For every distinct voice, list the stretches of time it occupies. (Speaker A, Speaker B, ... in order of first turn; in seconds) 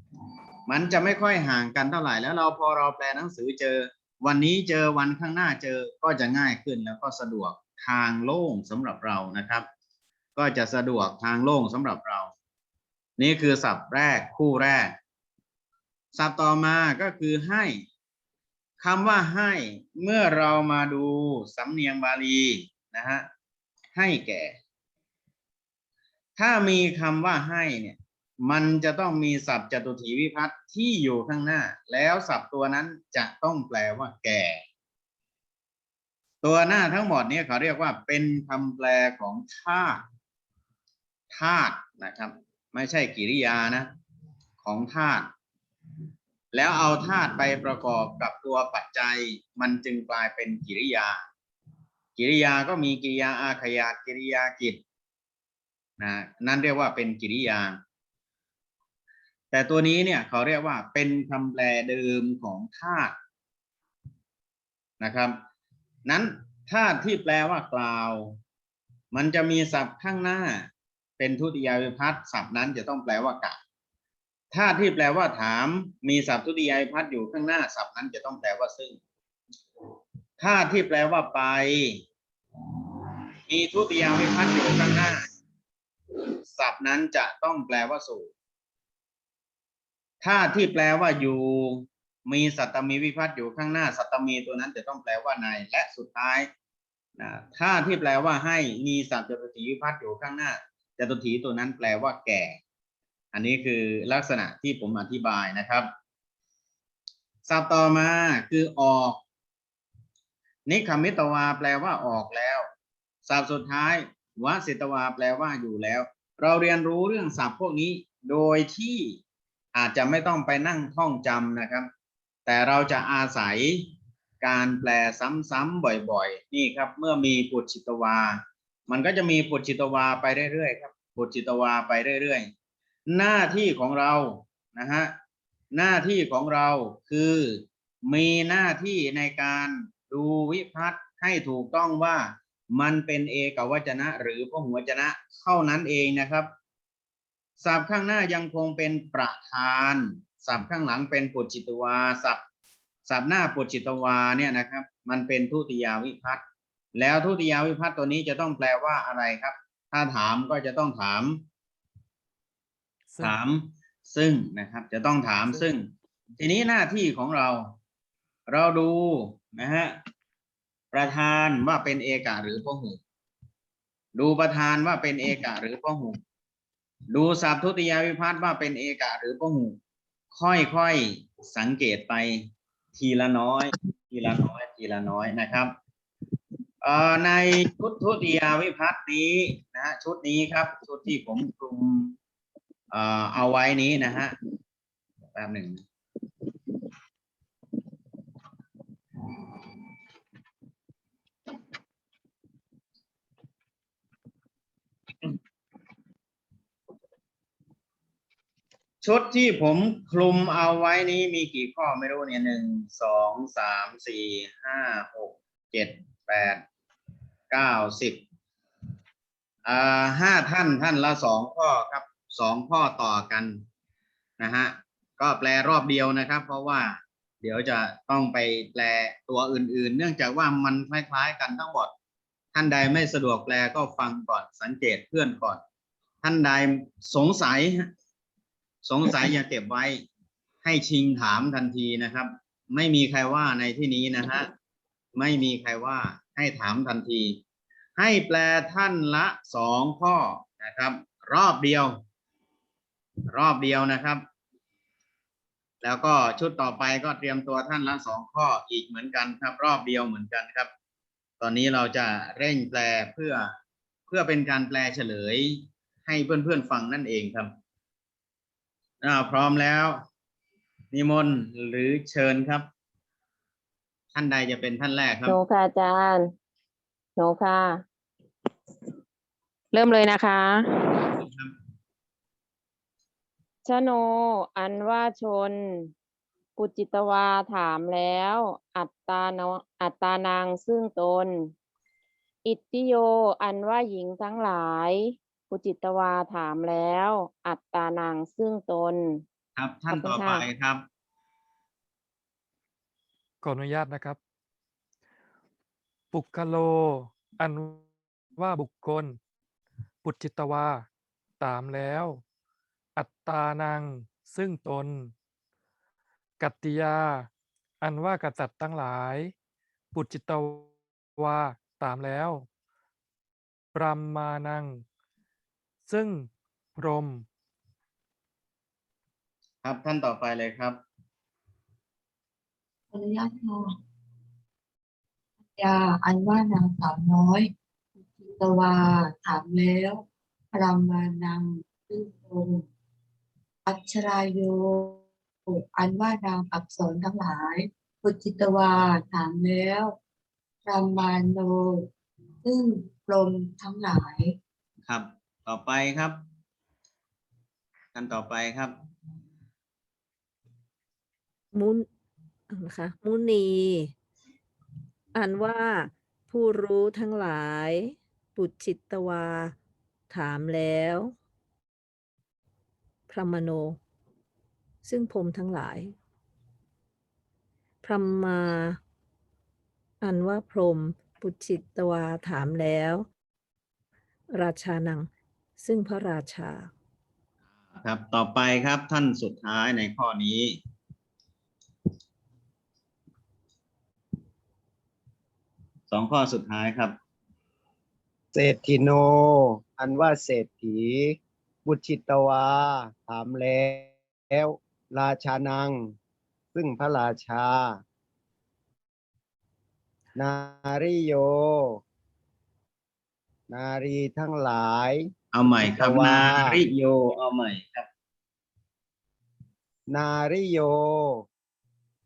Speaker A: 0.7-9.7, 10.4-12.3, 13.2-14.9, 16.1-17.9, 18.8-23.3, 23.9-24.6, 26.4-34.6, 36.4-40.0, 41.3-43.9, 44.6-45.3, 46.5-51.2, 52.2-54.8, 56.0-57.8, 59.5-63.2, 65.0-65.4, 66.1-68.4, 69.1-70.7, 71.2-73.6, 74.5-79.0, 80.4-82.0, 83.5-85.2, 86.5-88.3, 90.2-96.5, 97.2-102.6, 103.3-105.9, 107.5-109.2, 110.7-112.7, 113.3-119.2, 119.8-121.9, 122.5-123.9, 124.4-132.5, 133.1-135.1, 135.7-146.5, 147.6-152.4, 153.1-156.4, 156.9-161.4, 163.2-165.9, 166.4-167.8, 168.5-170.0, 170.9-173.0, 174.2-176.2, 177.1-179.8, 180.3-185.7, 186.8-192.2, 192.9-194.3, 195.3-195.8, 209.0-216.6, 217.5-218.2, 219.7-223.6, 224.4-231.9, 232.5-235.6, 236.2-237.9, 238.8-240.0, 240.6-244.5, 245.2-247.4, 248.0-252.0, 253.3-254.2, 255.8-260.7, 261.4-263.5, 264.1-267.5, 269.0-270.0, 270.9-272.7, 274.1-275.4, 281.2-281.5, 299.6-300.8, 329.6-330.8, 354.9-356.2, 357.9-358.7, 387.8-390.6, 395.9-396.9, 415.3-417.9
Speaker B: 163.1-163.4, 303.4-304.2, 306.1-307.8, 308.4-309.2, 310.0-310.9, 311.4-312.2, 313.0-315.1, 316.4-317.3, 317.8-319.3, 319.9-322.5, 323.8-324.8, 325.9-327.2
Speaker C: 275.3-276.3, 277.2-277.8, 279.7-281.1, 283.7-285.9, 286.6-291.5, 292.4-299.2, 299.9-300.4
Speaker D: 332.9-333.7, 335.5-337.5, 338.2-342.7, 343.7-349.9, 350.7-351.9, 352.4-354.4
Speaker E: 361.5-361.9, 362.5-363.9, 365.1-369.6, 370.1-371.1, 373.1-373.8, 374.9-375.9, 377.8-378.8, 380.0-383.1, 384.4-386.7
Speaker F: 398.3-405.9, 406.5-407.8, 410.2-411.8, 413.5-416.6, 419.9-421.2